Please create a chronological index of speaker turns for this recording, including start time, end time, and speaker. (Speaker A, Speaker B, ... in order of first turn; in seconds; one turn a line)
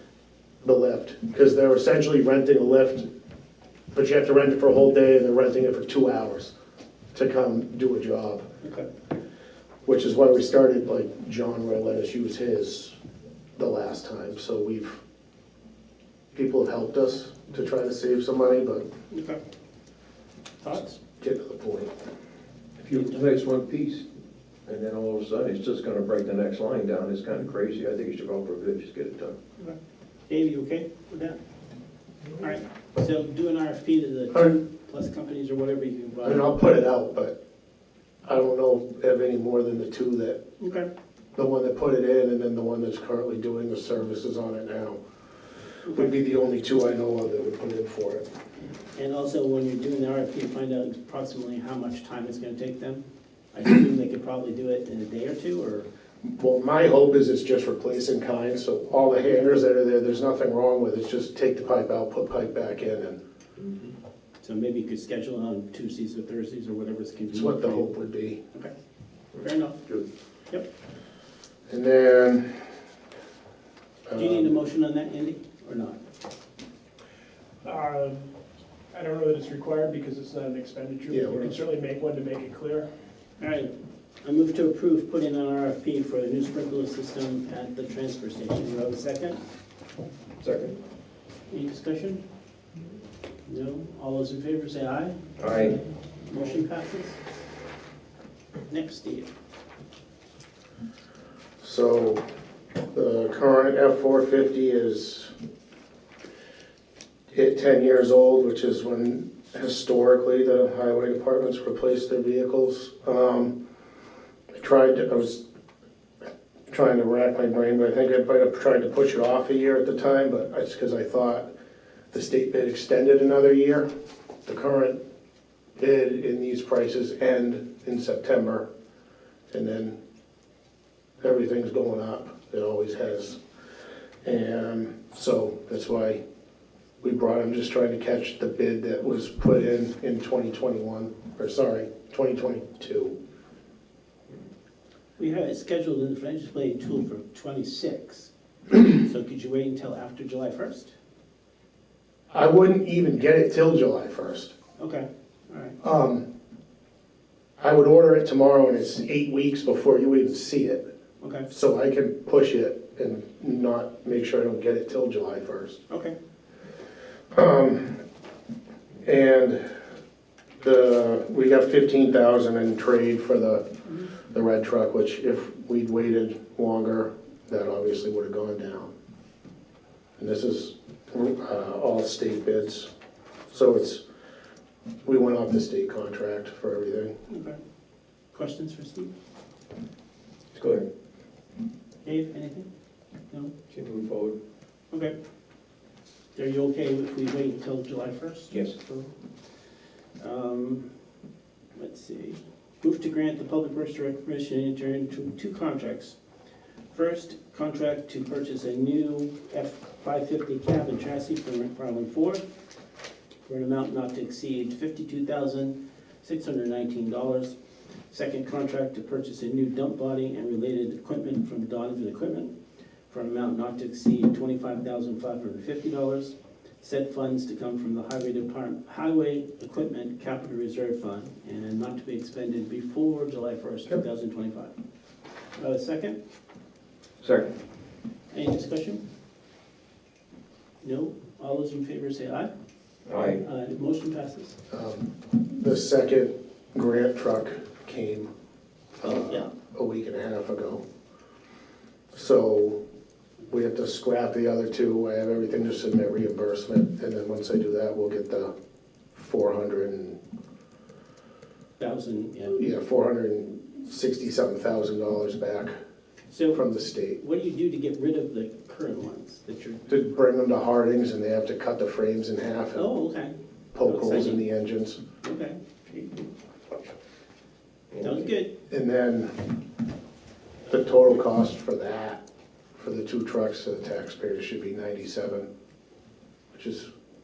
Speaker A: 0.6-3.1
Speaker A: 3.9-6.5
Speaker A: 7.1-8.5
Speaker B: 8.6-8.9
Speaker A: 9.8-12.9
Speaker A: 13.6-15.0
Speaker A: 16.3-18.9
Speaker B: 19.1-19.4
Speaker B: 20.6-21.0
Speaker A: 21.2-21.9
Speaker C: 22.8-24.1
Speaker C: 24.6-29.4
Speaker B: 30.3-31.4
Speaker B: 32.4-36.5
Speaker A: 36.2-37.4
Speaker A: 38.2-40.4
Speaker B: 40.6-40.9
Speaker A: 41.4-45.0
Speaker B: 45.8-46.1
Speaker A: 45.9-48.2
Speaker B: 49.0-55.9
Speaker A: 56.2-63.2
Speaker B: 64.4-67.9
Speaker A: 67.3-68.4
Speaker B: 69.4-69.8
Speaker A: 71.7-72.6
Speaker A: 74.1-74.5
Speaker B: 74.1-76.0
Speaker D: 77.6-78.3
Speaker D: 78.9-82.9
Speaker A: 81.1-81.5
Speaker B: 83.4-83.7
Speaker B: 84.2-89.4
Speaker C: 90.4-90.8
Speaker B: 91.5-92.2
Speaker B: 93.5-97.2
Speaker C: 95.4-95.8
Speaker B: 98.7-99.3
Speaker A: 101.6-102.2
Speaker A: 102.9-105.3
Speaker A: 107.3-113.5
Speaker A: 114.5-115.4
Speaker A: 116.7-121.5
Speaker A: 122.1-123.9
Speaker A: 124.5-125.0
Speaker A: 125.8-128.7
Speaker A: 129.5-129.9
Speaker A: 131.2-133.4
Speaker A: 134.2-136.2
Speaker A: 137.0-143.2
Speaker B: 145.2-150.9
Speaker A: 152.3-154.5
Speaker B: 154.8-155.8
Speaker A: 155.8-156.3
Speaker A: 157.6-160.9
Speaker B: 161.2-161.5
Speaker A: 161.5-165.8
Speaker B: 165.9-166.1
Speaker A: 167.3-168.0
Speaker A: 169.0-169.6
Speaker A: 170.6-173.7
Speaker A: 174.2-178.9
Speaker A: 180.2-182.9
Speaker A: 183.5-184.0
Speaker A: 185.0-187.1
Speaker B: 187.3-187.6
Speaker B: 188.3-189.1
Speaker C: 190.5-190.9
Speaker B: 192.0-192.7
Speaker C: 193.7-194.4
Speaker B: 196.3-199.1
Speaker B: 200.2-200.9
Speaker B: 201.8-206.2
Speaker B: 206.9-212.4
Speaker B: 213.4-217.5
Speaker B: 218.1-222.5
Speaker B: 223.1-234.7
Speaker B: 235.6-236.2
Speaker C: 237.2-237.5
Speaker B: 238.3-239.0
Speaker B: 240.8-242.5
Speaker C: 243.1-243.4
Speaker B: 243.2-244.6
Speaker A: 244.7-248.3
Speaker A: 249.0-250.8
Speaker B: 249.0-249.5
Speaker A: 252.1-252.8
Speaker A: 253.5-258.5
Speaker A: 259.1-260.2
Speaker B: 261.8-262.6
Speaker A: 262.5-265.8
Speaker B: 266.3-266.6
Speaker A: 266.5-267.2
Speaker B: 267.2-269.9
Speaker A: 269.9-272.9
Speaker B: 272.7-274.4
Speaker A: 273.7-275.0
Speaker B: 275.2-275.6
Speaker B: 278.0-278.6
Speaker A: 278.7-279.5
Speaker A: 280.7-282.2
Speaker A: 282.8-285.5
Speaker A: 286.5-286.9